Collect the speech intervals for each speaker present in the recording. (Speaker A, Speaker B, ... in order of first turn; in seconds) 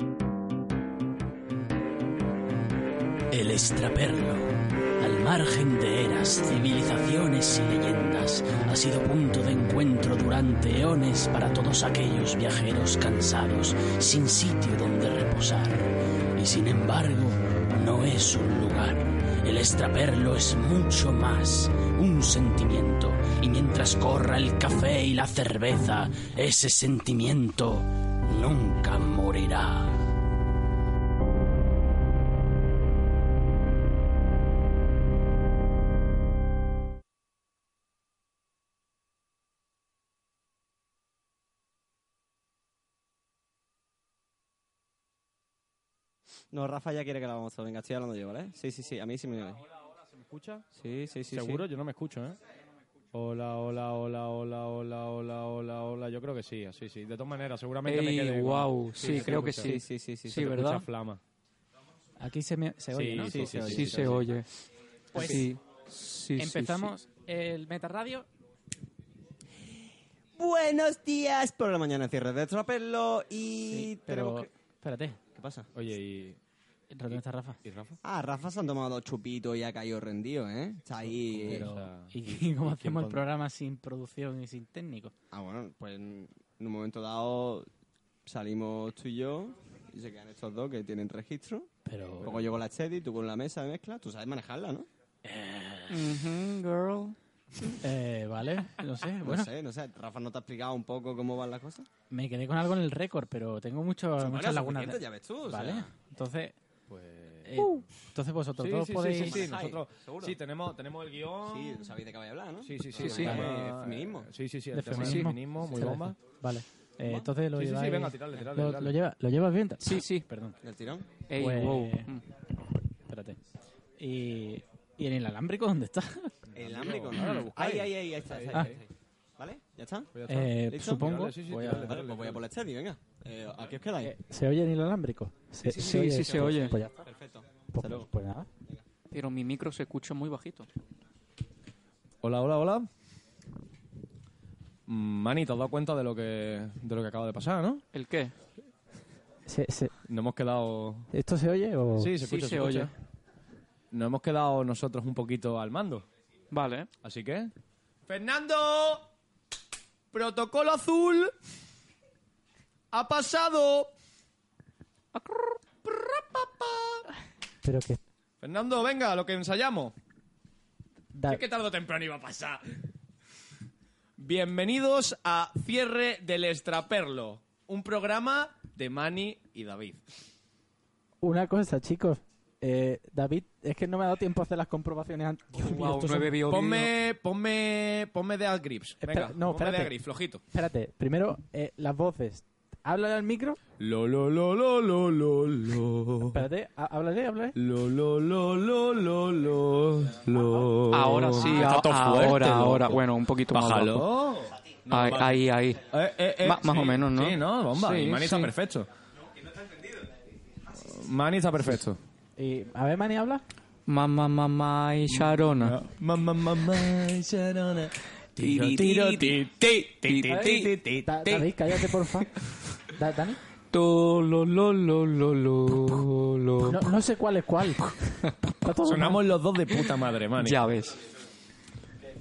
Speaker A: 3.3-30.0
Speaker B: 46.5-49.6, 50.8-51.6, 59.4-60.4, 63.2-64.3, 70.4-74.5, 75.3-75.7, 78.0-81.7, 85.3-87.7, 88.2-91.7, 92.2-94.9, 99.2-101.8, 104.2-105.8, 109.2-110.3, 111.5-114.3, 120.6-121.1, 126.5-128.9, 129.4-131.2, 131.7-134.1, 137.0-138.0
Speaker C: 50.1-50.6, 51.3-52.4, 53.1-59.8, 60.3-61.2, 62.9-64.2, 75.7-76.4, 77.1-78.0, 81.0-83.2, 106.9-107.6, 108.6-111.9, 112.6-116.2, 117.0-119.0, 126.6-128.8, 130.1-132.4, 142.2-142.9, 144.9-147.8, 150.1-151.1, 152.0-152.9, 153.9-156.1, 157.0-157.5, 158.1-159.1, 160.1-161.3, 162.9-163.9, 165.8-167.0, 168.4-169.9, 171.3-172.6, 174.2-180.0, 186.4-190.4, 193.8-196.4, 197.5-208.9, 210.8-212.0, 215.1-221.4, 228.8-230.6
Speaker D: 57.8-60.8, 63.6-64.5, 65.1-66.9, 95.9-97.2, 113.0-113.3, 115.0-115.3, 119.8-120.2, 121.3-122.2, 127.2-127.4, 135.7-136.7, 139.1-140.7, 147.9-148.3, 152.2-152.9, 156.5-156.9, 165.1-165.5, 185.5-186.9, 200.9-204.1, 204.9-205.8, 206.4-208.5, 213.9-215.8, 218.4-220.8, 223.7-226.9, 230.4-231.0
Speaker E: 59.0-59.2, 62.2-63.6, 65.1-65.5, 66.4-68.2, 73.7-75.2, 76.9-77.6, 81.5-85.1, 91.8-92.4, 97.8-99.5, 102.1-106.5, 107.5-109.5, 113.2-113.4, 114.7-120.6, 121.4-122.1, 123.1-123.4, 124.0-126.5, 130.3-131.9, 134.0-136.9, 137.7-138.5, 149.5-149.9, 151.1-152.1, 167.6-168.0, 171.1-171.4, 181.2-186.3, 189.0-189.9, 190.5-193.6, 196.3-197.6, 212.4-213.4, 220.3-222.3, 222.9-223.4, 226.6-227.9, 228.6-229.2